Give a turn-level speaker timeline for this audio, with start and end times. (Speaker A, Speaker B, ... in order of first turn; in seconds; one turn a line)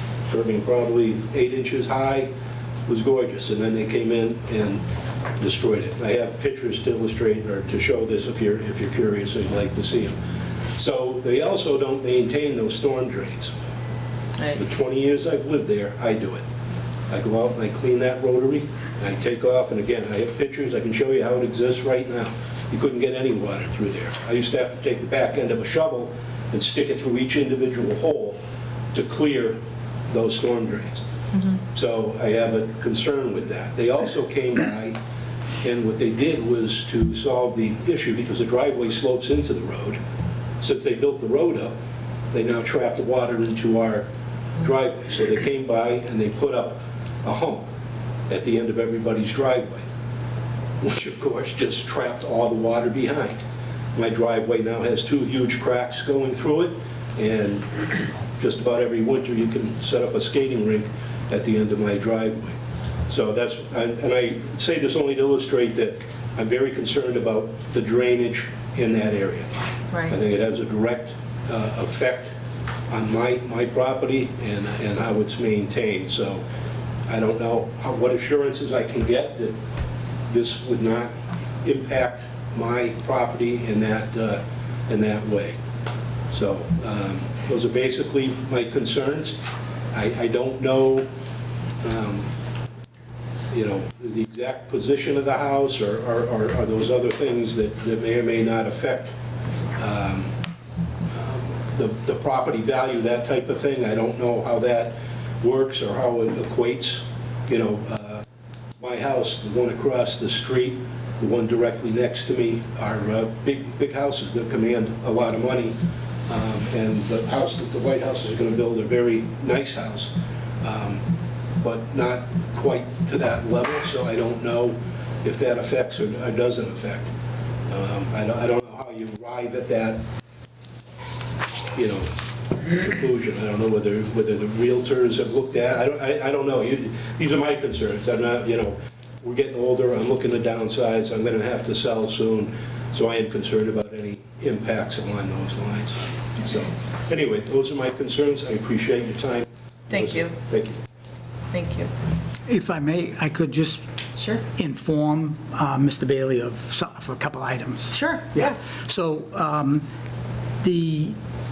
Speaker A: 0.3-2.3
Speaker A: 2.9-4.8
Speaker A: 5.4-10.2
Speaker A: 10.7-13.5
Speaker A: 14.5-16.4
Speaker A: 17.1-28.4
Speaker A: 28.9-29.6
Speaker A: 30.1-31.0
Speaker B: 31.3-31.6
Speaker A: 31.7-35.0
Speaker A: 35.6-40.0
Speaker A: 40.6-41.7
Speaker A: 42.3-44.1
Speaker A: 44.6-47.7
Speaker A: 48.3-49.8
Speaker A: 50.8-53.4
Speaker A: 54.0-62.6
Speaker A: 63.1-69.5
Speaker A: 70.1-72.3
Speaker A: 72.9-76.4
Speaker A: 77.1-79.5
Speaker A: 80.3-81.1
Speaker A: 81.6-85.6
Speaker A: 86.3-89.4
Speaker A: 89.9-91.1
Speaker A: 91.8-92.3
Speaker A: 93.5-99.2
Speaker A: 99.8-100.3
Speaker A: 101.1-108.2
Speaker A: 108.8-121.0
Speaker A: 121.6-127.1
Speaker A: 127.7-130.0
Speaker A: 131.7-150.8
Speaker B: 149.9-150.3
Speaker B: 151.5-151.9
Speaker C: 152.4-153.8
Speaker B: 154.2-154.4
Speaker C: 154.6-159.8
Speaker B: 157.9-158.8
Speaker C: 160.6-161.2